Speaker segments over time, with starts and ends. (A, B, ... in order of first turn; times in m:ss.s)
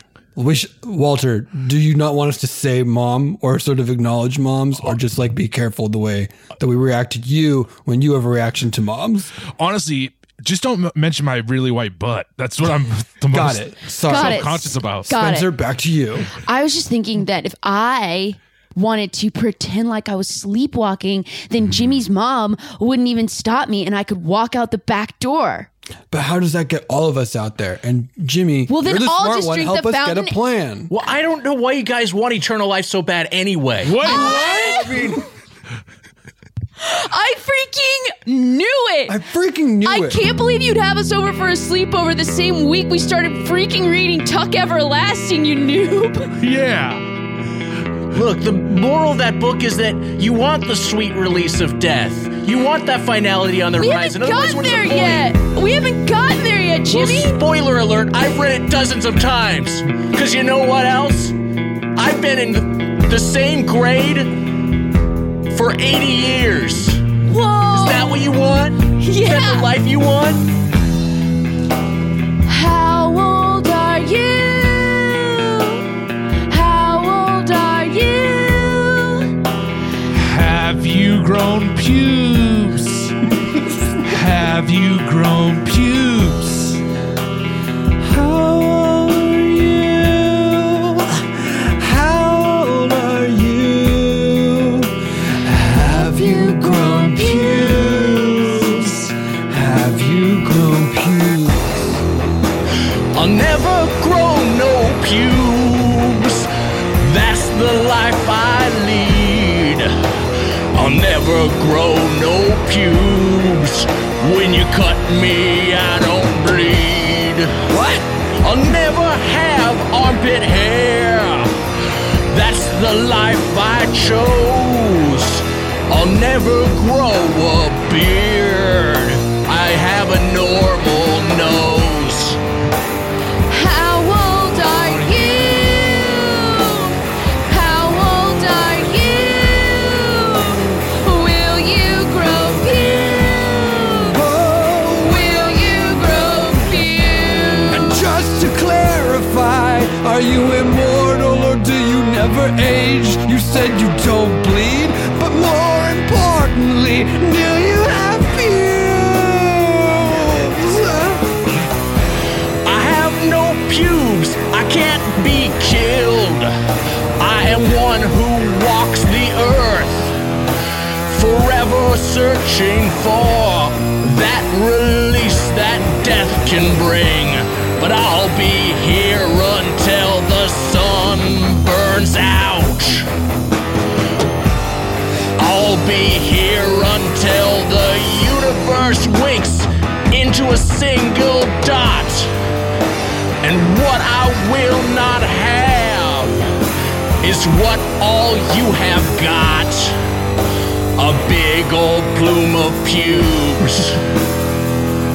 0:00.4-0:09.3 A
0:09.5-0:15.1 B
0:13.3-0:16.3 A
0:14.1-0:15.5 C
0:16.3-0:25.7 C
0:26.1-0:30.9 A
0:28.7-0:30.4 C
0:30.9-0:34.0 D
0:33.8-0:35.0 B
0:34.0-0:35.2 A
0:34.0-0:35.2 C
0:36.8-0:39.2 C
0:39.1-0:40.2 A
0:39.8-0:46.3 C
0:46.4-0:47.0 B
0:48.1-0:55.3 D
0:53.8-0:57.4 C
0:56.9-1:01.4 D
1:02.0-1:04.3 D
1:05.5-1:07.0 D
1:07.3-1:08.1 C
1:07.7-1:10.5 D
1:09.0-1:09.7 C
1:12.5-1:15.8 C
1:16.5-1:19.3 C
1:20.1-1:23.2 B
1:24.0-1:26.8 B
1:28.0-1:42.0 A
1:35.9-1:38.9 C
1:43.1-1:57.7 D
1:57.7-1:58.1 A
1:58.4-2:01.6 D
2:02.3-2:12.4 D
2:13.5-2:24.2 C
2:14.6-2:16.0 B
2:24.0-2:25.7 A
2:25.0-2:28.0 C
2:27.7-2:41.4 A
2:42.6-2:46.5 D
2:47.2-2:50.1 D
2:51.1-3:03.1 D
3:05.4-3:12.3 D
3:13.4-3:16.4 D
3:17.2-3:20.0 D
3:21.0-3:24.0 D